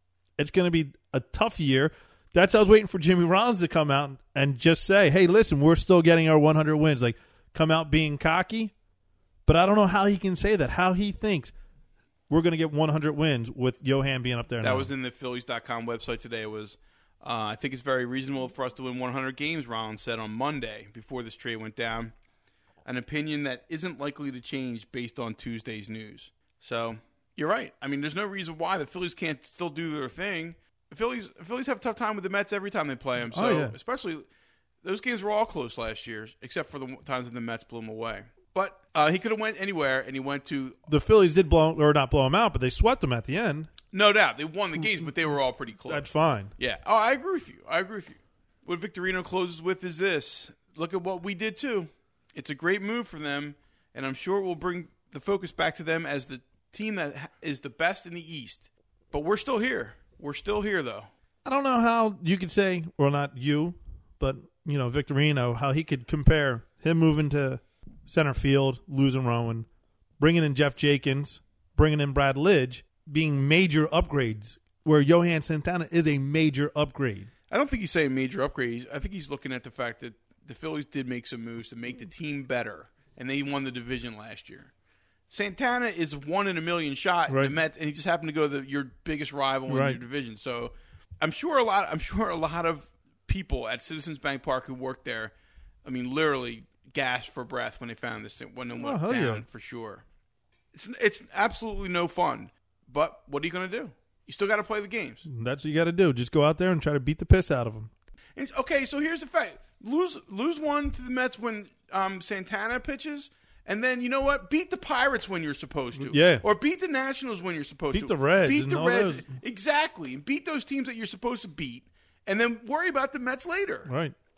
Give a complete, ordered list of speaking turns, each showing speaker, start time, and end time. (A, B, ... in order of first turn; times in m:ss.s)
0:00.4-0:08.7 A
0:09.5-0:11.5 A
0:12.3-0:14.9 A
0:14.6-0:22.1 B
0:22.8-0:34.3 B
0:33.3-0:33.7 A
0:34.8-0:40.8 B
0:40.9-0:43.7 A
0:43.9-1:01.1 B
0:44.8-0:45.1 A
0:45.9-0:46.5 A
1:01.4-1:09.7 A
1:10.2-1:17.3 A
1:17.5-1:24.7 B
1:25.3-1:35.3 B
1:27.3-1:27.6 A
1:29.7-1:30.0 A
1:35.8-1:40.0 B
1:38.8-1:39.4 A
1:40.7-1:45.3 B
1:45.3-1:47.9 A
1:48.4-2:03.9 B
1:56.0-1:56.4 A
1:57.9-1:59.3 A
2:03.9-2:04.2 A